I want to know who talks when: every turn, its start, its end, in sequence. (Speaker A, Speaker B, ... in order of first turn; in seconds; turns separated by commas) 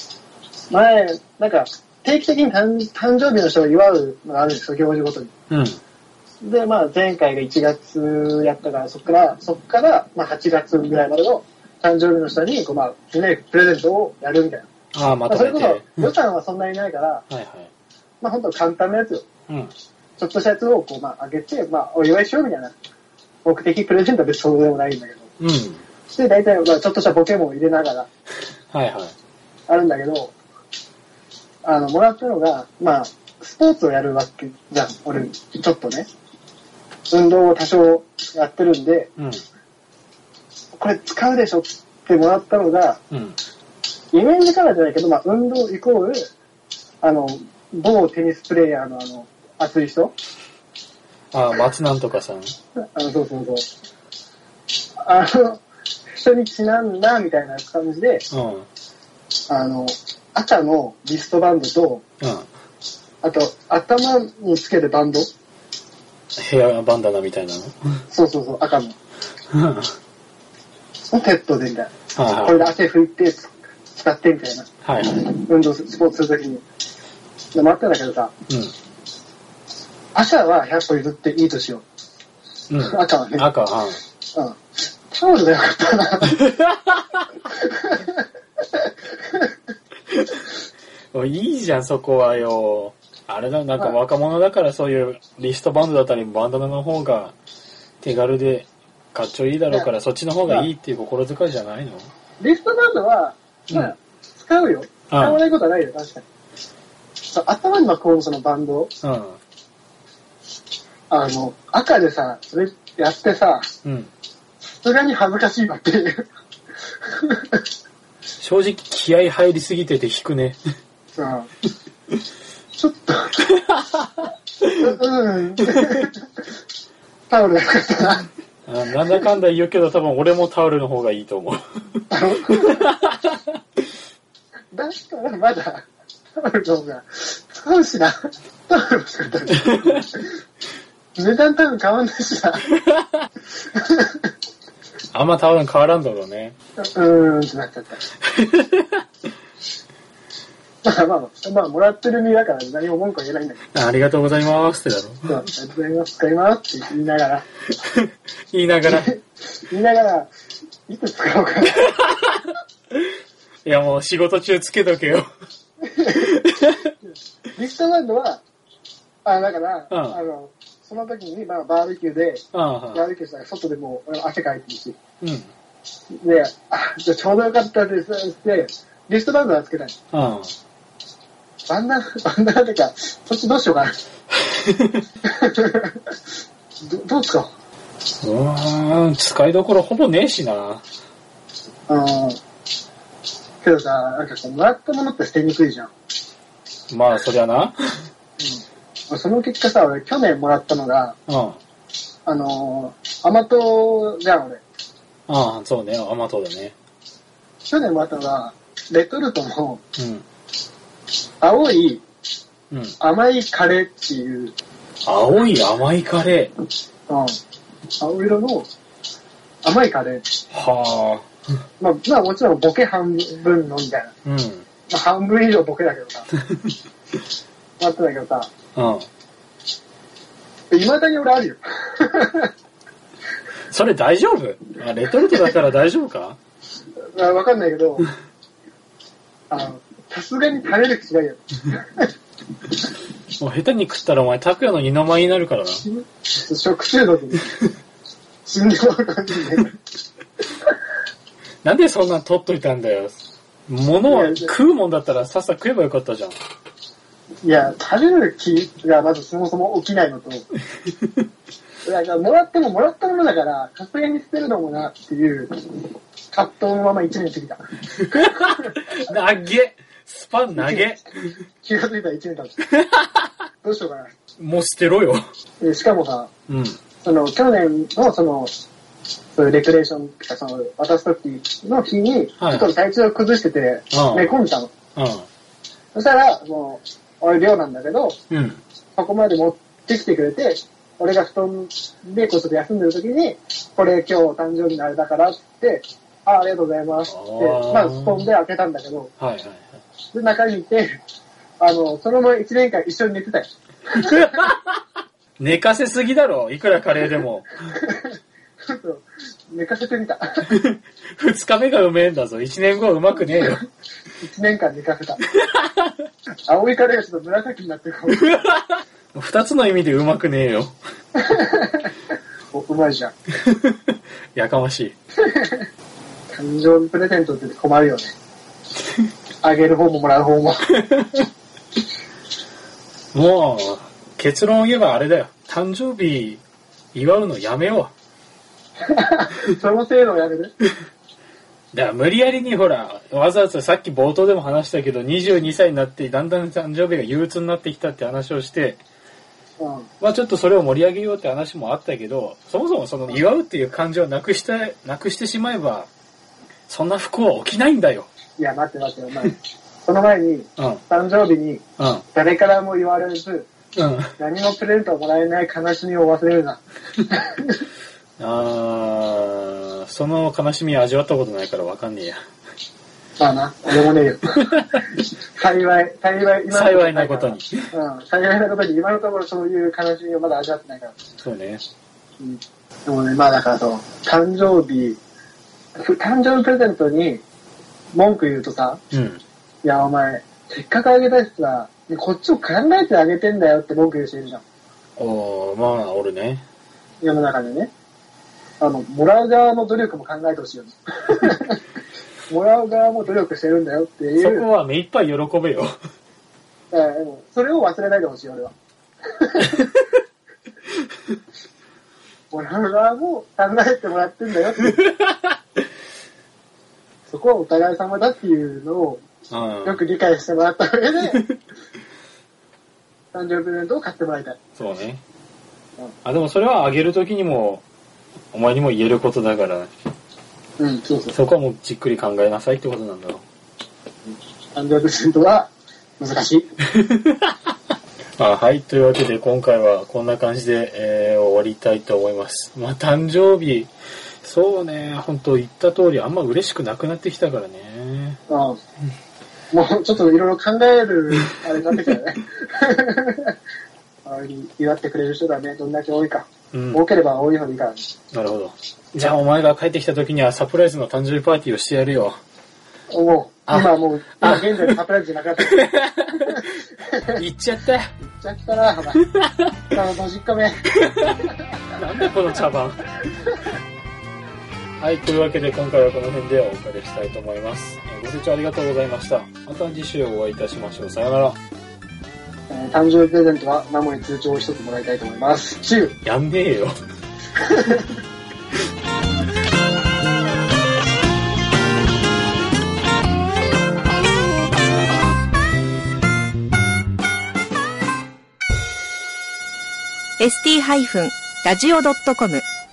Speaker A: 0.7-5.3, Speaker B: 5.5-5.8, Speaker A: 6.4-14.7, Speaker B: 14.9-16.1, Speaker A: 15.3-17.2, Speaker B: 17.3-17.7, Speaker A: 18.2-19.2, Speaker B: 19.5-19.7, Speaker A: 20.2-22.7, Speaker A: 23.4-25.3, Speaker B: 25.4-25.8, Speaker A: 26.1-28.1, Speaker B: 28.7-29.1, Speaker A: 29.7-30.3, Speaker A: 31.6-36.1, Speaker A: 37.1-39.1, Speaker B: 39.2-39.4, Speaker A: 40.8-43.0, Speaker B: 43.1-43.4, Speaker A: 44.1-46.3, Speaker A: 47.0-50.1, Speaker B: 51.3-52.5, Speaker A: 52.9-53.7, Speaker A: 55.0-58.2, Speaker B: 58.3-58.7, Speaker A: 59.5-62.0, Speaker B: 62.2-62.5, Speaker A: 63.2-65.3, Speaker B: 66.4-68.0, Speaker A: 68.1-69.0, Speaker B: 69.5-69.9, Speaker A: 71.1-76.6, Speaker B: 72.1-72.7, Speaker B: 74.8-75.2, Speaker A: 77.5-78.3, Speaker A: 80.1-81.8, Speaker B: 82.7-84.0, Speaker A: 82.8-83.5, Speaker A: 84.3-84.6, Speaker A: 85.1-86.4, Speaker B: 86.3-87.2, Speaker A: 87.5-89.4, Speaker B: 90.1-90.5, Speaker B: 91.1-97.3, Speaker B: 98.0-102.1, Speaker A: 102.4-106.2, Speaker B: 105.1-105.4, Speaker A: 107.3-108.9, Speaker B: 109.0-109.4, Speaker A: 111.1-113.7, Speaker B: 113.8-114.1, Speaker A: 114.6-116.2, Speaker A: 117.0-117.6, Speaker B: 118.4-120.6, Speaker A: 121.2-121.5, Speaker A: 122.8-123.5, Speaker B: 123.7-124.0, Speaker A: 124.7-126.4, Speaker B: 125.6-125.9, Speaker A: 127.3-128.3, Speaker B: 128.7-133.5, Speaker A: 132.1-132.9, Speaker A: 134.7-135.8, Speaker A: 136.4-140.3, Speaker A: 141.2-142.7, Speaker A: 143.7-144.3, Speaker B: 145.1-146.5, Speaker A: 146.8-148.0, Speaker B: 148.3-149.0, Speaker A: 150.8-153.7, Speaker B: 153.7-155.4, Speaker A: 155.3-157.4, Speaker B: 157.9-159.1, Speaker A: 158.9-160.3, Speaker A: 160.9-162.0, Speaker B: 161.9-162.5, Speaker B: 163.6-165.2, Speaker A: 165.9-166.3, Speaker B: 166.1-166.9, Speaker A: 167.5-168.4, Speaker A: 169.2-175.0, Speaker B: 169.9-170.2, Speaker B: 172.5-173.0, Speaker B: 175.2-175.5, Speaker A: 176.1-179.9, Speaker B: 180.1-180.5, Speaker A: 181.7-184.0, Speaker B: 184.5-185.0, Speaker A: 185.2-186.1, Speaker A: 186.8-187.5, Speaker B: 188.2-190.8, Speaker A: 191.9-192.4, Speaker A: 193.6-195.9, Speaker B: 196.9-197.8, Speaker A: 198.4-201.2, Speaker B: 201.3-201.6, Speaker A: 202.2-204.6, Speaker B: 205.3-206.7, Speaker A: 207.7-209.8, Speaker B: 210.0-210.2, Speaker A: 211.4-212.0, Speaker B: 212.7-212.9, Speaker A: 213.0-214.5, Speaker B: 215.0-216.5, Speaker A: 217.1-217.4, Speaker A: 218.0-218.7, Speaker A: 219.6-220.3, Speaker B: 220.5-221.3, Speaker A: 221.8-224.1, Speaker B: 224.2-224.6, Speaker A: 224.9-226.3, Speaker A: 227.8-228.5, Speaker B: 228.7-229.1, Speaker A: 230.7-232.5, Speaker B: 233.7-236.4, Speaker A: 237.1-238.1, Speaker A: 239.5-242.1, Speaker B: 243.4-245.8, Speaker A: 246.3-247.5, Speaker A: 248.4-249.8, Speaker B: 251.6-256.4, Speaker A: 254.1-254.5, Speaker A: 257.4-260.5, Speaker A: 261.8-268.8, Speaker B: 268.1-271.1, Speaker A: 270.6-270.9, Speaker A: 271.6-272.7, Speaker B: 272.8-273.2, Speaker A: 273.6-274.1, Speaker B: 274.4-275.2, Speaker A: 275.6-276.3, Speaker B: 276.5-276.8, Speaker A: 277.0-278.5, Speaker A: 279.3-284.7, Speaker B: 282.4-282.7, Speaker B: 283.9-284.3, Speaker B: 284.9-285.3, Speaker A: 285.9-288.2, Speaker B: 288.3-288.6, Speaker A: 288.9-299.1, Speaker B: 297.1-298.3, Speaker B: 299.2-299.8, Speaker A: 300.1-301.0, Speaker A: 301.6-304.5, Speaker B: 304.0-304.7, Speaker B: 305.4-307.5, Speaker A: 307.8-310.5, Speaker B: 310.5-313.6, Speaker A: 314.2-315.2, Speaker B: 315.3-315.9, Speaker A: 316.4-318.4, Speaker B: 318.2-320.8, Speaker A: 321.2-321.9, Speaker A: 322.5-323.1, Speaker B: 323.4-324.9, Speaker A: 325.2-325.6, Speaker A: 326.3-328.1, Speaker A: 329.4-330.7, Speaker B: 333.1-336.4, Speaker B: 336.9-337.9, Speaker A: 338.9-340.5, Speaker B: 341.7-348.8, Speaker A: 349.6-349.9, Speaker B: 350.0-355.9, Speaker B: 356.7-358.1, Speaker A: 358.4-361.6, Speaker B: 361.8-362.0, Speaker A: 362.1-363.5, Speaker B: 363.8-364.1, Speaker A: 364.2-367.6, Speaker B: 368.2-372.2, Speaker A: 373.2-380.9, Speaker B: 374.5-374.8, Speaker B: 376.5-377.7, Speaker B: 381.2-381.6, Speaker A: 382.2-385.0, Speaker A: 385.8-387.2, Speaker A: 387.9-388.8, Speaker B: 388.9-389.2, Speaker A: 389.6-394.4, Speaker B: 395.0-396.4, Speaker A: 397.0-397.7, Speaker A: 398.6-401.6, Speaker A: 402.3-404.5, Speaker B: 404.2-405.7, Speaker A: 406.7-408.5, Speaker A: 409.1-409.7, Speaker A: 412.3-414.8, Speaker A: 417.1-419.0, Speaker B: 419.3-419.8, Speaker A: 419.6-421.2, Speaker A: 423.1-424.4, Speaker B: 424.6-425.0, Speaker B: 426.0-427.6, Speaker B: 428.3-429.7, Speaker A: 430.6-431.1, Speaker B: 431.1-433.2, Speaker A: 434.5-436.5, Speaker B: 436.8-437.3, Speaker B: 438.2-443.7, Speaker B: 444.2-448.2, Speaker A: 448.3-448.6, Speaker A: 449.5-453.3, Speaker A: 454.0-457.8, Speaker B: 456.5-456.8, Speaker B: 458.1-462.2, Speaker A: 462.9-465.7, Speaker B: 463.5-464.8, Speaker B: 465.4-466.6, Speaker A: 466.3-467.2, Speaker B: 467.1-467.9, Speaker A: 468.0-469.0, Speaker B: 469.1-469.5, Speaker A: 469.7-471.1, Speaker B: 470.9-471.2, Speaker B: 471.7-472.8, Speaker B: 474.8-481.4, Speaker A: 482.5-485.9, Speaker B: 486.0-486.7, Speaker A: 487.4-487.8, Speaker C: 500.2-502.4